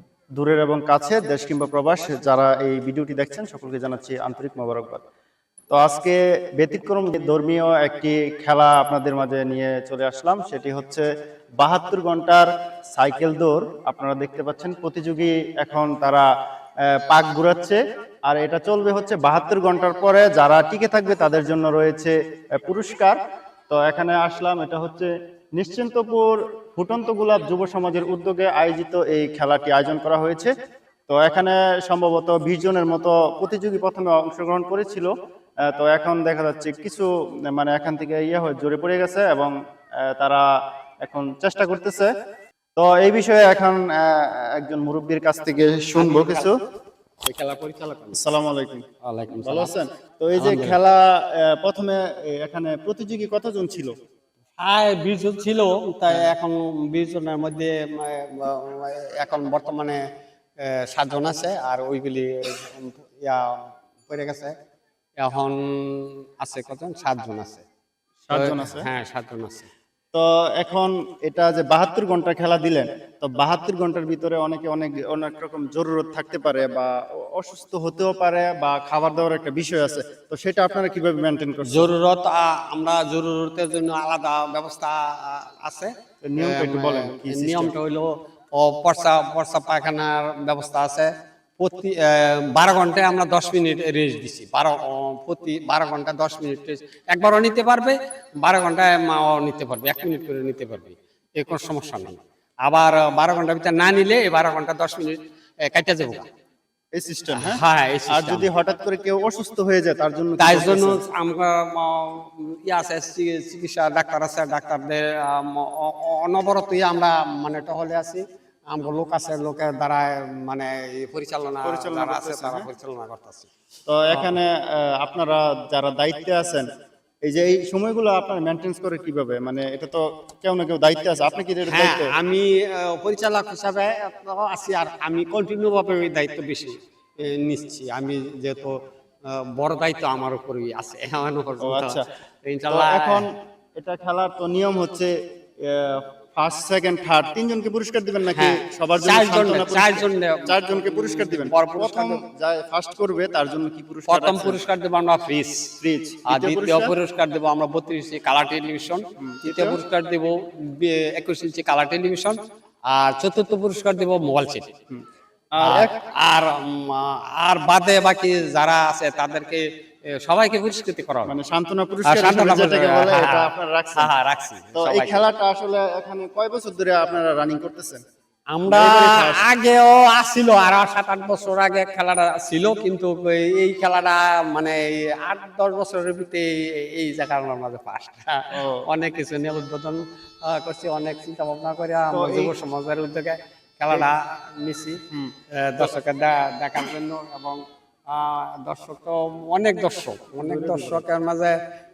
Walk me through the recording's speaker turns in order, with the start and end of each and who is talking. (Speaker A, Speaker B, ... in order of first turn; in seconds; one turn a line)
Speaker A: 0.4-5.0
Speaker A: 5.7-11.1
Speaker A: 11.6-16.2
Speaker A: 16.9-23.1
Speaker A: 23.7-30.5
Speaker A: 31.1-35.1
Speaker A: 35.7-39.5
Speaker A: 40.1-40.4
Speaker A: 41.0-42.1
Speaker A: 42.8-46.6
Speaker B: 45.9-46.5
Speaker B: 47.2-48.2
Speaker A: 48.1-53.9
Speaker B: 49.0-49.7
Speaker B: 50.3-50.8
Speaker B: 54.6-60.0
Speaker B: 60.6-64.5
Speaker B: 65.2-67.6
Speaker A: 68.2-68.9
Speaker B: 68.3-69.7
Speaker A: 70.1-81.9
Speaker B: 81.6-106.3
Speaker A: 86.2-87.7
Speaker A: 106.9-111.0
Speaker B: 107.3-108.5
Speaker B: 110.4-123.5
Speaker A: 121.6-122.7
Speaker A: 123.9-126.7
Speaker A: 127.2-132.1
Speaker B: 131.6-138.7
Speaker B: 139.3-143.3
Speaker A: 141.6-142.1
Speaker A: 142.7-154.6
Speaker B: 148.3-152.2
Speaker B: 154.1-155.7
Speaker A: 155.8-156.9
Speaker B: 156.3-162.4
Speaker A: 159.2-159.8
Speaker B: 162.9-164.7
Speaker A: 164.9-166.0
Speaker B: 165.6-169.6
Speaker B: 170.2-171.3
Speaker A: 171.2-174.1
Speaker B: 172.0-175.3
Speaker A: 174.7-178.0
Speaker B: 178.5-195.0
Speaker A: 178.6-179.4
Speaker A: 188.5-188.8
Speaker A: 192.1-192.5
Speaker A: 195.1-195.9
Speaker B: 195.5-201.6
Speaker A: 200.4-201.0